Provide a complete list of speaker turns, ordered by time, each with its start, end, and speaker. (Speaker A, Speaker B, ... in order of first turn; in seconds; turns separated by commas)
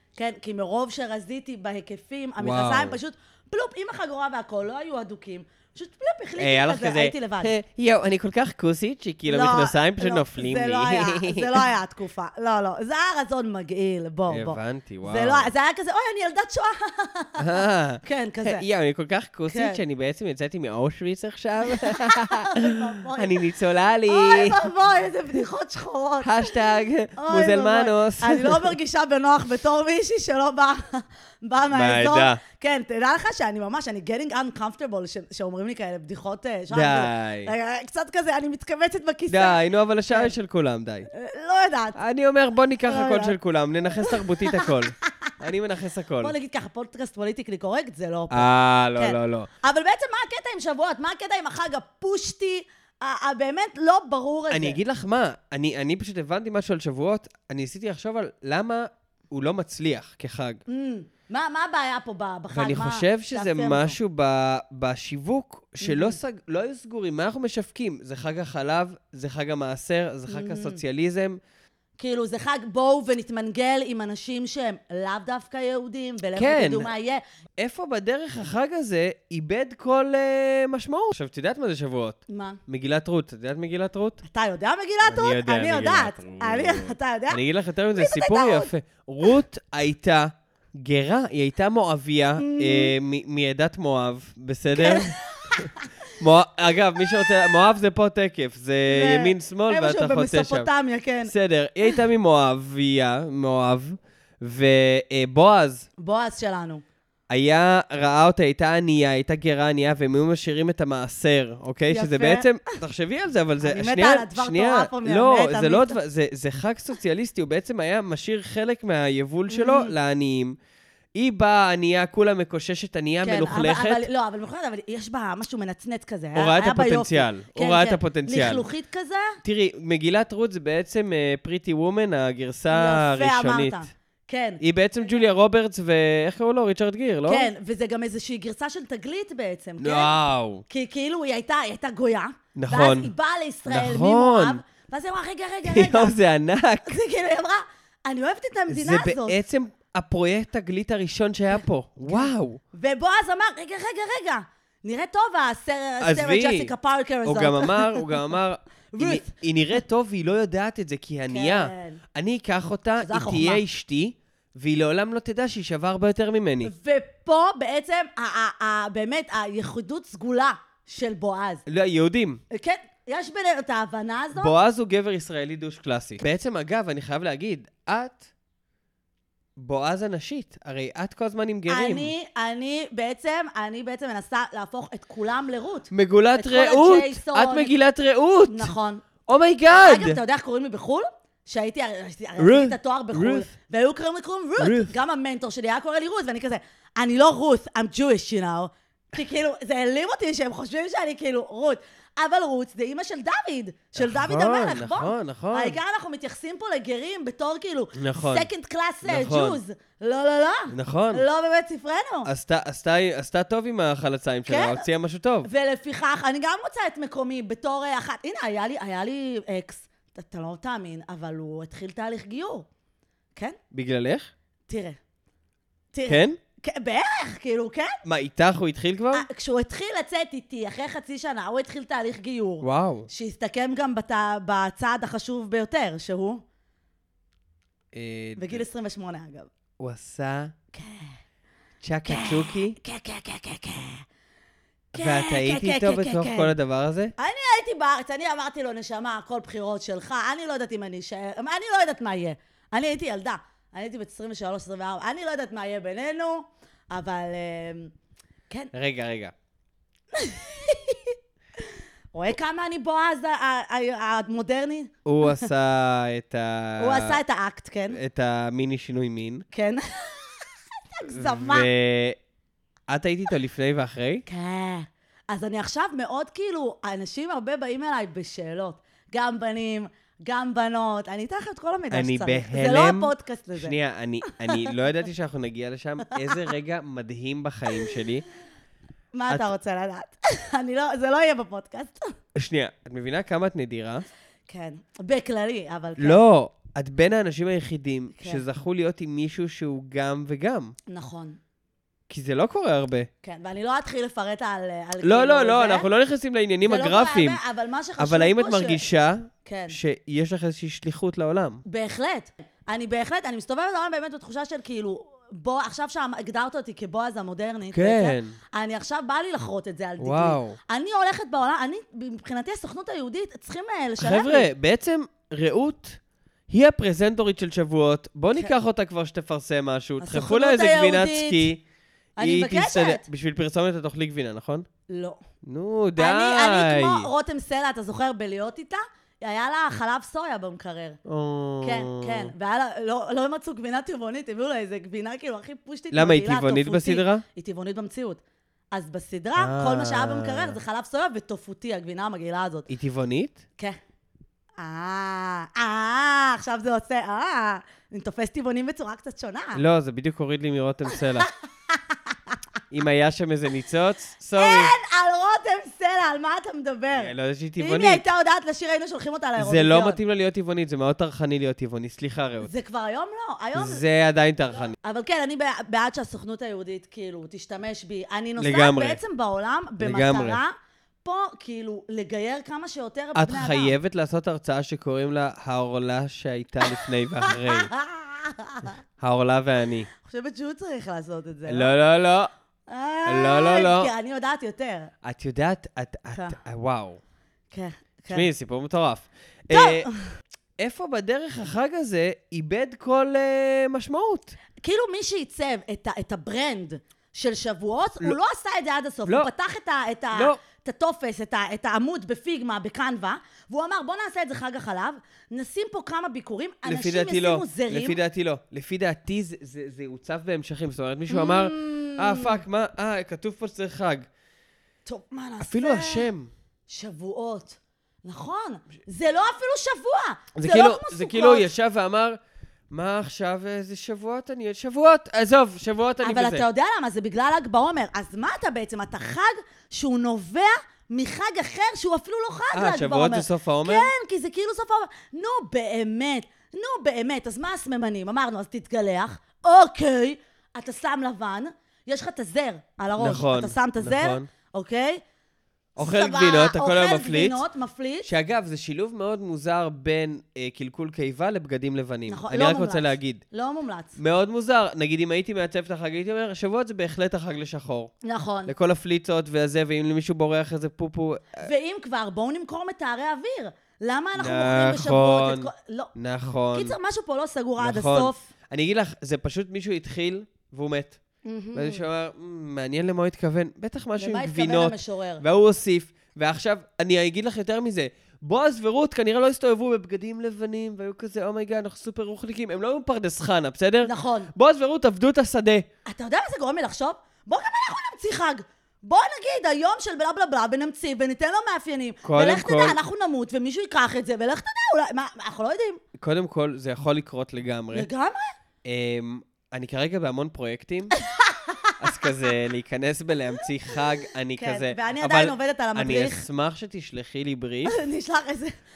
Speaker A: 0.2-7.5, Speaker B: 2.4-3.0, Speaker B: 6.4-11.7, Speaker A: 9.3-17.5, Speaker B: 14.3-15.5, Speaker B: 17.4-24.6, Speaker A: 18.0-18.6, Speaker A: 19.5-19.8, Speaker A: 21.7-23.5, Speaker A: 24.1-26.6, Speaker B: 26.2-28.8, Speaker A: 27.2-40.3, Speaker B: 31.7-32.4, Speaker B: 36.7-37.5, Speaker B: 39.3-41.1, Speaker A: 41.1-42.0, Speaker B: 42.0-46.3, Speaker A: 42.9-43.4, Speaker A: 43.9-45.3, Speaker A: 46.2-54.8, Speaker B: 48.3-49.5, Speaker B: 54.5-60.6, Speaker A: 60.7-64.0, Speaker B: 62.5-71.4, Speaker A: 65.8-66.2, Speaker A: 70.3-70.8, Speaker A: 72.0-77.2, Speaker B: 76.4-76.9, Speaker B: 77.6-84.2, Speaker A: 82.3-82.6, Speaker A: 84.2-87.4, Speaker B: 85.0-100.7, Speaker A: 88.0-88.7, Speaker A: 92.4-92.9, Speaker A: 94.8-96.1, Speaker A: 98.9-101.3, Speaker B: 101.3-105.9, Speaker A: 106.0-106.8, Speaker B: 107.3-120.6, Speaker A: 111.9-112.8, Speaker A: 113.6-116.0, Speaker A: 119.5-119.9, Speaker B: 121.2-124.1, Speaker A: 123.2-129.4, Speaker B: 126.3-128.7, Speaker B: 129.4-133.8, Speaker A: 132.7-135.2, Speaker B: 134.6-137.5, Speaker A: 137.3-140.2, Speaker B: 139.8-140.6, Speaker A: 140.7-146.2, Speaker B: 142.6-143.1, Speaker B: 143.7-144.6, Speaker B: 145.7-146.9, Speaker A: 146.8-149.4, Speaker B: 148.7-152.6, Speaker A: 151.6-158.1, Speaker B: 156.0-156.7, Speaker B: 157.2-166.7, Speaker A: 158.9-159.3, Speaker A: 161.3-162.0, Speaker A: 163.0-163.6, Speaker A: 166.6-171.6, Speaker B: 171.7-172.4, Speaker A: 172.5-174.5, Speaker B: 174.4-178.2, Speaker B: 179.6-182.1, Speaker A: 181.7-187.8, Speaker B: 185.9-188.7, Speaker A: 188.5-189.1, Speaker B: 189.3-190.2, Speaker A: 189.7-212.3, Speaker B: 192.4-193.5, Speaker B: 194.6-194.9, Speaker B: 204.0-205.8, Speaker B: 208.0-208.5, Speaker B: 209.0-209.6, Speaker B: 210.7-211.2, Speaker B: 212.2-215.5, Speaker A: 214.5-214.8, Speaker A: 215.4-222.7, Speaker B: 223.7-224.3, Speaker A: 224.7-225.0, Speaker A: 225.9-228.0, Speaker B: 226.1-226.4, Speaker B: 228.1-229.3, Speaker A: 229.1-236.4, Speaker B: 232.6-233.1, Speaker B: 237.9-238.6, Speaker A: 238.4-239.5, Speaker B: 239.8-240.5, Speaker A: 240.7-241.2, Speaker B: 241.8-242.8, Speaker A: 242.1-244.1, Speaker B: 244.9-247.1, Speaker A: 244.9-246.6, Speaker A: 247.2-257.9, Speaker B: 258.7-259.3, Speaker A: 260.1-265.5, Speaker B: 265.1-267.2, Speaker A: 266.8-268.0, Speaker B: 267.9-269.4, Speaker A: 269.5-271.7, Speaker B: 271.1-272.2, Speaker B: 272.9-274.2, Speaker A: 274.3-283.8, Speaker B: 281.9-288.2, Speaker A: 284.3-284.7, Speaker A: 286.1-286.5, Speaker A: 287.7-287.9, Speaker A: 289.1-292.1, Speaker B: 292.4-294.1, Speaker A: 294.5-296.2, Speaker B: 296.0-300.8, Speaker A: 298.2-298.4, Speaker A: 300.9-301.4, Speaker B: 302.1-303.1, Speaker A: 303.2-305.9, Speaker B: 305.0-307.4, Speaker A: 306.6-308.8, Speaker B: 308.0-311.6, Speaker A: 309.4-309.8, Speaker A: 311.6-324.5, Speaker B: 317.7-318.4, Speaker B: 320.0-320.6, Speaker B: 324.0-331.6, Speaker A: 330.0-331.5, Speaker A: 332.2-333.1, Speaker B: 332.2-334.7, Speaker A: 334.9-335.2, Speaker B: 335.4-337.1, Speaker A: 336.0-341.0, Speaker B: 341.1-342.3, Speaker A: 341.6-352.7, Speaker B: 345.9-347.2, Speaker B: 349.4-350.6, Speaker B: 352.7-353.4, Speaker A: 354.6-359.6, Speaker B: 359.6-361.3, Speaker A: 360.9-362.4, Speaker B: 362.7-364.7, Speaker A: 364.4-370.0, Speaker B: 366.9-368.0, Speaker B: 369.4-372.5, Speaker A: 372.4-373.8, Speaker B: 373.6-374.8, Speaker A: 374.8-383.8, Speaker B: 378.4-379.0, Speaker B: 379.8-380.4, Speaker B: 383.1-387.7, Speaker A: 386.7-388.8, Speaker B: 389.0-389.9, Speaker A: 390.0-391.7, Speaker B: 391.5-392.3, Speaker A: 392.7-394.9, Speaker B: 393.1-393.9, Speaker B: 395.0-397.0, Speaker A: 397.5-398.3, Speaker B: 398.1-399.9, Speaker A: 399.5-400.1, Speaker B: 400.6-404.4, Speaker A: 404.6-418.0, Speaker B: 410.1-410.4, Speaker B: 416.7-424.1, Speaker A: 421.1-422.4, Speaker A: 424.9-426.1, Speaker B: 425.4-426.3, Speaker A: 426.7-431.5, Speaker B: 430.4-432.2, Speaker B: 432.7-436.4, Speaker A: 436.0-455.0, Speaker B: 442.5-443.9, Speaker B: 453.0-454.3, Speaker B: 455.8-457.4, Speaker A: 455.8-458.1, Speaker B: 458.1-463.2, Speaker A: 462.1-464.0, Speaker B: 464.0-467.9, Speaker A: 468.0-468.5, Speaker B: 468.5-471.5, Speaker A: 471.4-475.9, Speaker B: 474.2-476.8, Speaker A: 476.5-478.3, Speaker B: 477.6-481.0, Speaker A: 481.2-481.8, Speaker B: 481.5-495.7, Speaker A: 484.0-485.2, Speaker A: 493.8-494.3, Speaker A: 495.9-505.8, Speaker B: 502.0-502.8, Speaker B: 506.0-507.9, Speaker A: 507.7-508.3, Speaker B: 508.6-511.0, Speaker A: 511.0-511.8, Speaker B: 511.8-517.8, Speaker A: 514.4-516.2, Speaker A: 517.6-518.5